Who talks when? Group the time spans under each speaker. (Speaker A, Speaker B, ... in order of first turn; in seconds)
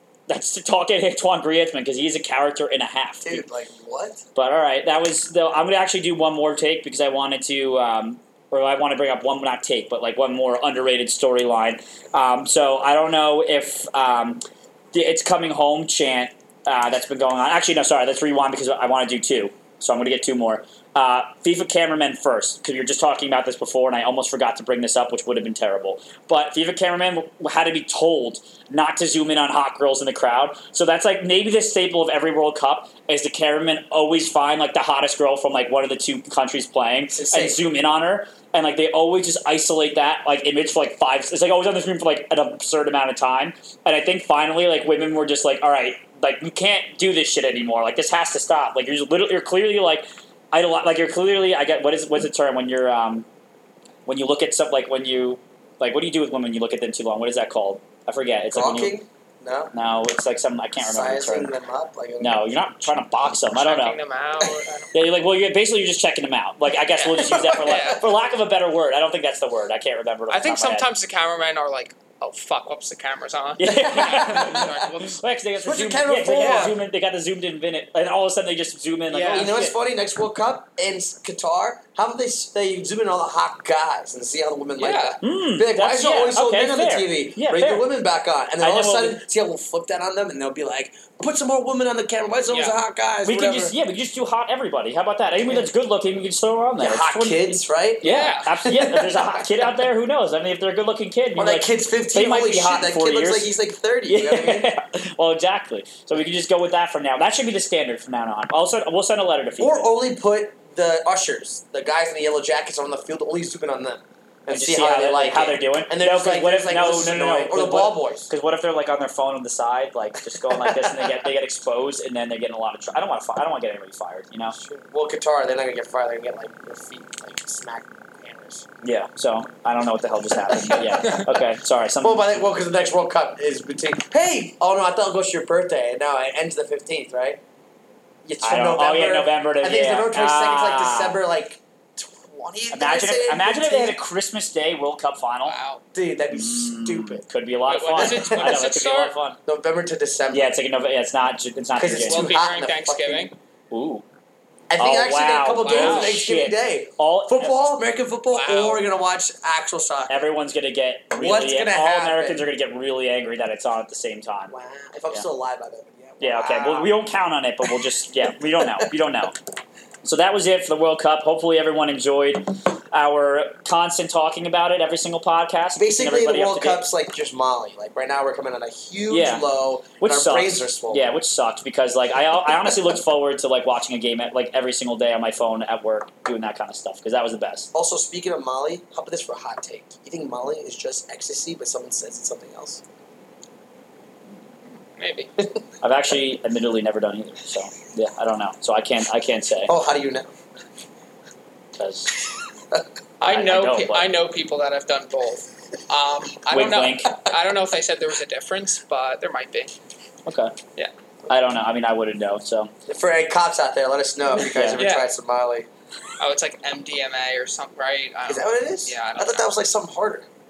Speaker A: 0.3-3.4, 4.3-53.2, 54.0-59.0, 59.7-61.5, 62.2-64.0, 64.9-70.9, 73.6-79.8, 85.2-87.9, 88.6-89.2, 93.2-103.5, 104.1-109.9, 114.5-124.6, 128.8-132.3, 138.4-141.2, 142.7-145.5, 146.3-149.4, 150.3-152.3, 153.7-154.0, 154.8-157.6, 160.1-164.5, 166.2-169.4, 170.0-176.8, 179.1-179.5, 180.0-187.7, 195.8-199.7, 201.8-202.1, 203.2-204.1, 206.5-207.2, 210.2-210.6, 211.3-212.7, 214.5-214.8
Speaker B: 3.2-4.2, 37.1-37.6, 58.5-59.7, 60.8-62.4, 67.2-68.0, 73.6-74.8, 75.6-76.8, 79.3-93.7, 96.8-98.1, 98.6-99.1, 101.3-104.7, 109.6-118.3, 120.5-121.2, 124.5-128.7, 130.7-131.2, 132.0-137.4, 138.2-144.0, 145.9-147.2, 147.9-148.6, 149.4-150.5, 151.8-153.3, 154.7-160.2, 161.1-162.4, 164.5-166.9, 175.8-181.1, 187.7-192.8, 199.7-200.3, 212.9-215.7, 218.3-220.3
Speaker C: 63.5-64.9, 66.9-68.0, 70.3-75.2, 79.1-79.5, 84.8-85.2, 92.5-92.8, 98.0-98.6, 130.9-131.3, 145.4-145.8, 147.7-149.1, 152.1-153.3, 155.6-156.2, 158.3-158.9, 195.0-195.3, 203.2-209.7, 214.8-215.1, 216.2-219.6